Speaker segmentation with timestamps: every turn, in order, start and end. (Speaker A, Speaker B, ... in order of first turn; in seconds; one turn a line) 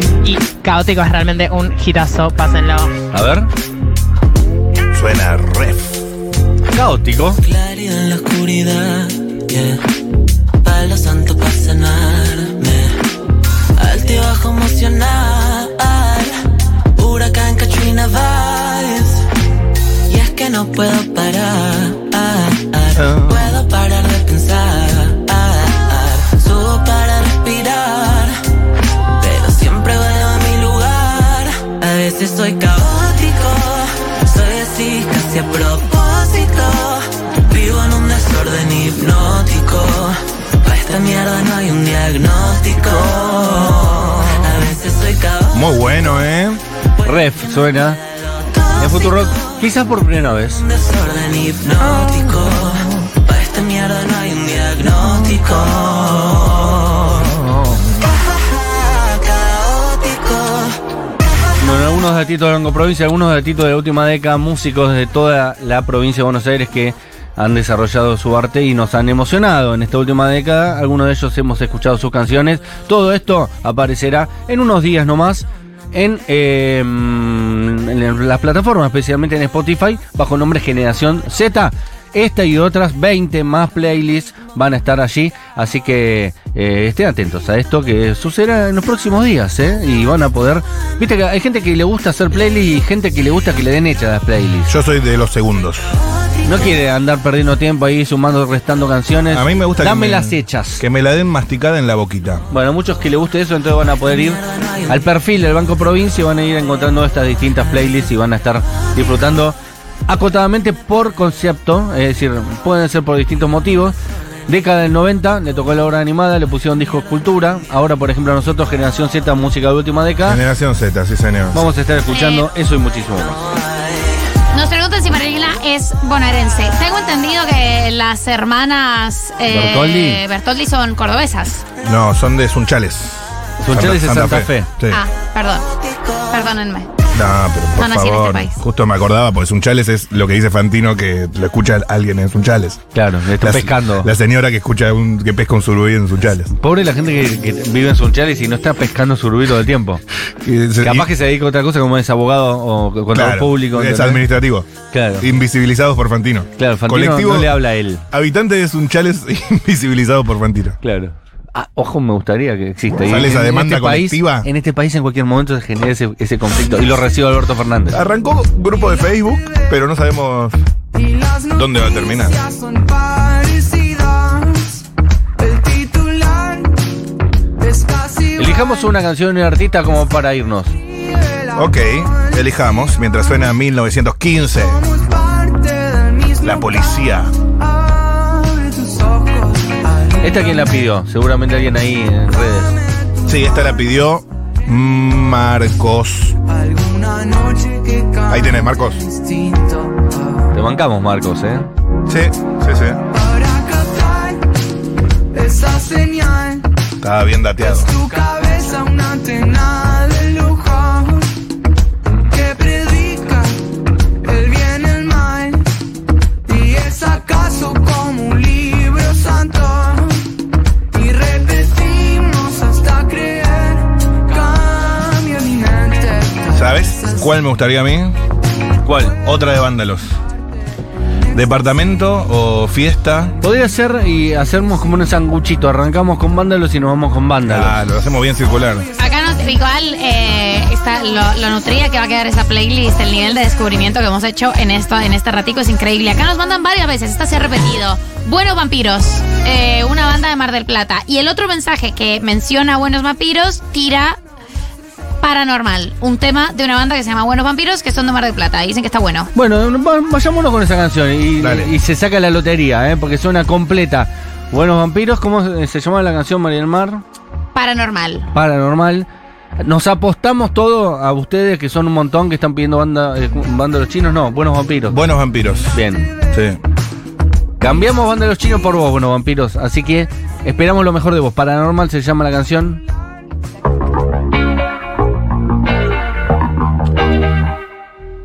Speaker A: 0.2-2.9
Speaker B: 3.1-3.5
Speaker C: 4.9-6.0
Speaker B: 6.7-7.4
Speaker D: 7.4-9.8
Speaker D: 10.6-13.0
Speaker D: 13.8-16.4
Speaker D: 17.0-19.2
Speaker D: 20.1-28.4
Speaker C: 22.9-23.5
Speaker D: 29.2-45.6
Speaker C: 42.8-43.6
Speaker C: 45.5-46.6
Speaker B: 47.0-48.0
Speaker D: 48.4-49.5
Speaker B: 48.8-50.6
Speaker D: 50.6-57.2
Speaker C: 57.2-58.0
Speaker D: 58.9-60.7
Speaker B: 61.6-94.7
Speaker C: 94.7-95.9
Speaker B: 96.4-100.8
Speaker C: 99.3-102.4
Speaker B: 102.5-114.0
Speaker D: 104.4-104.9
Speaker B: 114.5-120.4
Speaker C: 120.3-121.6
Speaker B: 121.5-123.4
Speaker E: 122.1-122.5
Speaker E: 124.5-131.6
Speaker B: 129.5-130.2
Speaker C: 131.8-135.0
Speaker B: 133.6-134.7
Speaker E: 134.9-135.7
Speaker E: 136.3-136.9
Speaker C: 137.1-142.8
Speaker E: 137.8-138.6
Speaker B: 142.9-144.1
Speaker C: 143.4-146.5
Speaker B: 146.5-150.0
Speaker C: 150.4-151.1
Speaker B: 150.8-154.2
Speaker C: 153.1-154.7
Speaker B: 154.9-155.3
Speaker C: 155.2-157.6
Speaker B: 156.6-158.0
Speaker C: 158.1-160.8
Speaker B: 160.8-168.0
Speaker C: 163.1-164.5
Speaker C: 167.9-170.6
Speaker C: 171.5-172.4
Speaker B: 178.3-180.7
Speaker C: 181.5-184.8
Speaker C: 186.4-187.3
Speaker B: 190.2-192.8
Speaker C: 193.2-196.4
Speaker F: 197.0-198.2
Speaker C: 198.3-199.0
Speaker F: 199.4-199.7
Speaker B: 200.5-201.7
Speaker C: 202.1-203.0
Speaker F: 205.4-206.2
Speaker C: 207.0-207.9
Speaker F: 208.2-210.5
Speaker F: 221.6-222.2
Speaker F: 224.7-225.9
Speaker C: 226.5-228.2
Speaker B: 228.8-229.2
Speaker C: 229.2-230.1
Speaker C: 231.3-233.4
Speaker B: 233.4-237.8
Speaker C: 237.4-238.9
Speaker E: 239.0-254.2
Speaker E: 255.2-259.3
Speaker B: 259.3-267.0
Speaker C: 261.4-261.7
Speaker E: 267.5-268.3
Speaker B: 268.3-269.1
Speaker B: 269.6-275.0
Speaker C: 274.9-276.6
Speaker B: 275.7-276.1
Speaker B: 277.6-282.8